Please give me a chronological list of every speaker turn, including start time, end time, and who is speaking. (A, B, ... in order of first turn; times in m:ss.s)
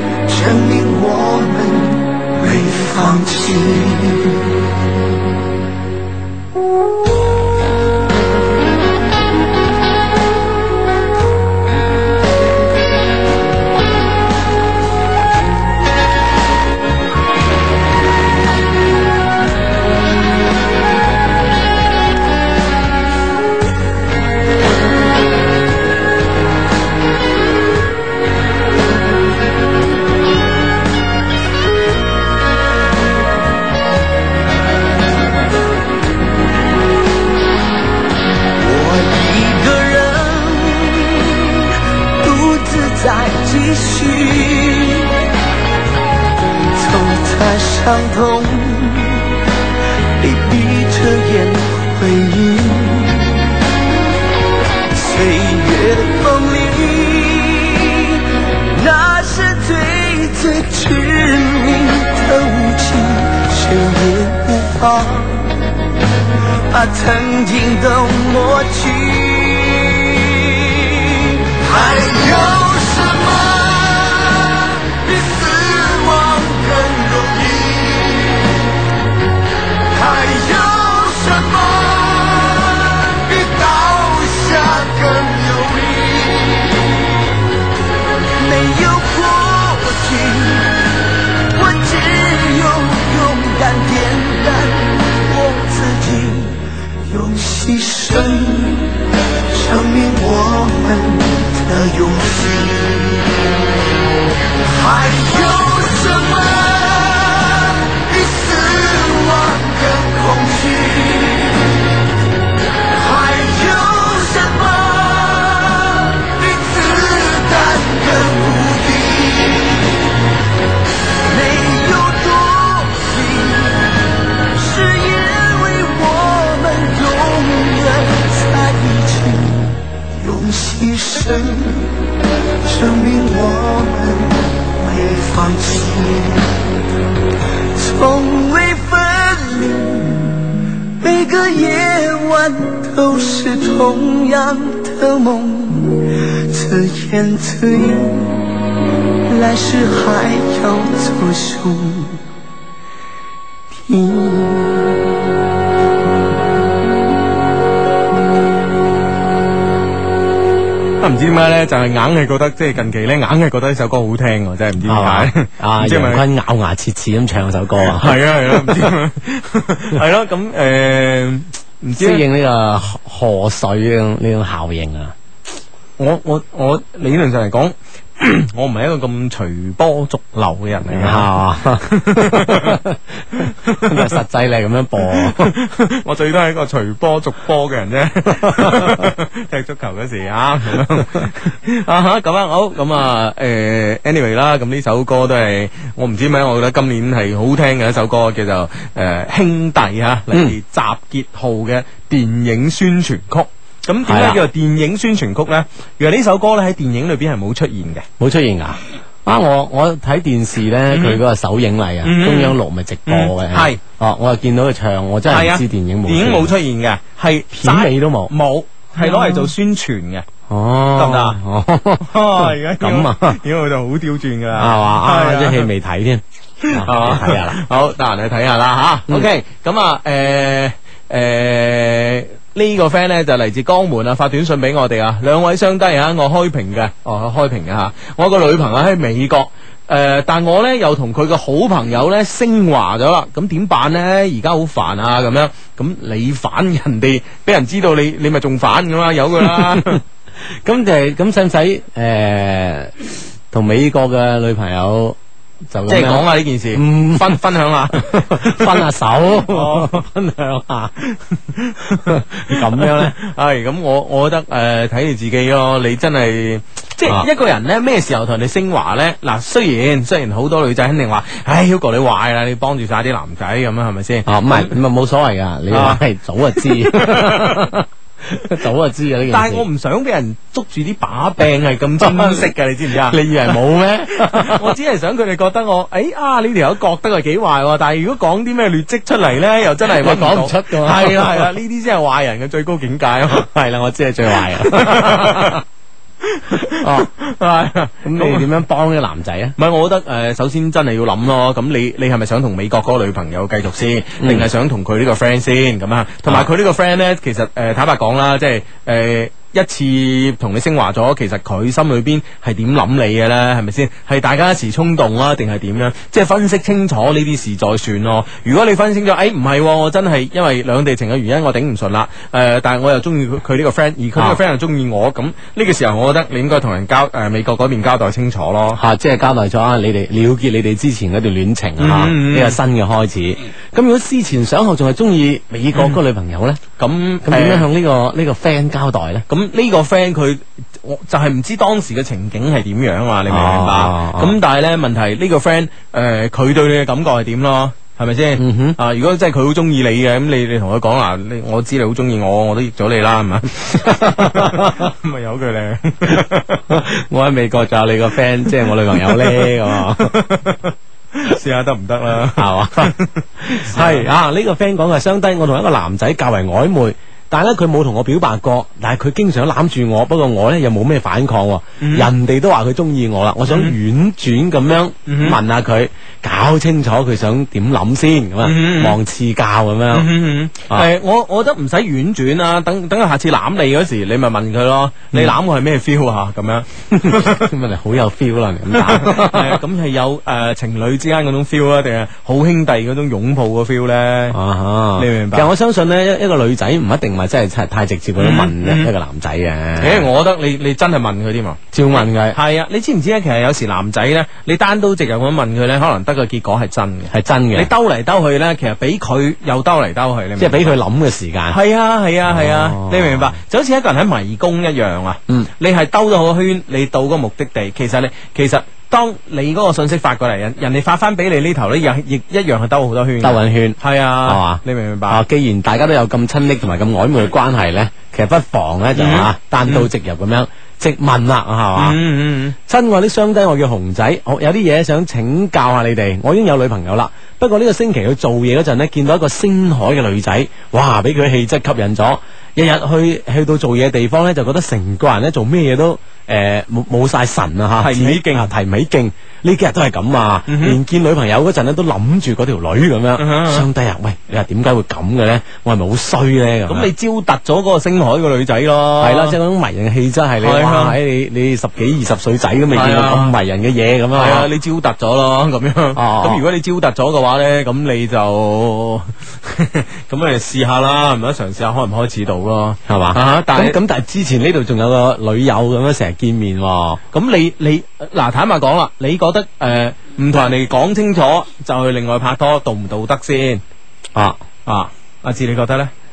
0:00.3-0:04.6 A
0:38.6-0:45.2 A
0:46.8-0:49.5 A
0:50.2-0:53.6 A
0:54.9-1:05.8 A
1:06.7-1:18.7 A
1:19.9-1:27.4 A
1:28.4-1:30.9 A
1:31.5-1:43.5 A
1:44.6-1:52.0 A
1:52.9-2:00.2 A
2:01.2-2:12.1 A
2:12.6-2:16.6 A
2:17.8-2:28.7 A
2:29.3-2:32.2 A
2:33.7-2:35.0 A
2:41.0-2:46.2 B
2:44.9-2:48.9 C
2:47.8-2:52.2 B
2:52.0-2:55.2 C
2:56.0-3:02.8 B
3:00.8-3:05.5 C
3:03.3-3:04.2 B
3:05.0-3:28.1 B
3:08.4-3:09.1 C
3:24.0-3:24.4 C
3:28.2-3:36.5 C
3:30.9-3:31.2 B
3:32.0-3:33.8 B
3:35.3-3:40.3 B
3:37.5-3:38.3 C
3:39.0-3:39.5 C
3:40.5-3:43.4 C
3:41.0-3:41.4 B
3:42.0-3:45.7 B
3:44.6-3:47.6 C
3:46.6-4:10.0 B
4:09.4-4:10.0 C
4:10.5-4:15.2 C
4:15.7-4:21.0 C
4:15.9-4:18.9 B
4:19.4-4:19.9 B
4:21.0-4:34.7 B
4:22.0-4:23.2 C
4:34.3-4:39.7 C
4:35.7-4:36.0 B
4:36.5-4:37.8 B
4:39.3-4:53.5 B
4:42.0-4:44.7 C
4:49.9-4:51.5 C
4:53.3-4:55.6 C
4:54.3-4:55.6 B
4:56.2-4:58.5 B
4:56.6-4:57.1 C
4:58.0-4:59.6 C
4:59.6-5:28.8 B
5:04.2-5:04.5 C
5:28.8-5:36.6 C
5:31.8-5:32.6 B
5:35.7-5:36.0 B
5:36.8-5:37.7 B
5:37.2-5:39.3 C
5:39.3-5:56.8 B
5:43.3-5:44.4 C
5:48.4-5:48.8 C
5:53.8-5:54.9 C
5:56.2-6:00.3 C
5:58.5-6:04.1 B
6:02.4-6:20.1 C
6:11.8-6:12.1 B
6:13.5-6:13.8 B
6:15.1-6:15.4 B
6:18.4-6:19.0 B
6:19.9-6:27.5 B
6:27.0-6:29.6 C
6:28.7-6:34.4 B
6:34.3-6:40.1 C
6:35.0-6:35.5 B
6:38.2-6:38.9 B
6:39.8-6:41.6 B
6:41.7-6:42.4 C
6:42.3-6:50.7 B
6:47.1-6:47.7 C
6:50.4-6:51.6 C
6:51.5-7:05.2 B
6:52.3-6:53.4 C
7:03.2-7:12.0 C
7:09.0-7:09.9 B
7:11.8-7:12.6 B
7:12.7-7:36.9 C
7:27.8-7:28.5 B
7:30.5-7:30.8 B
7:33.2-7:33.7 B
7:36.7-7:39.4 B
7:39.0-7:44.5 C
7:40.4-7:41.0 B
7:42.7-7:43.3 B
7:44.1-7:53.8 B
7:46.0-7:46.4 C
7:52.9-7:57.0 C
7:57.1-8:03.6 B
8:04.2-8:04.4 C
8:04.7-8:05.9 B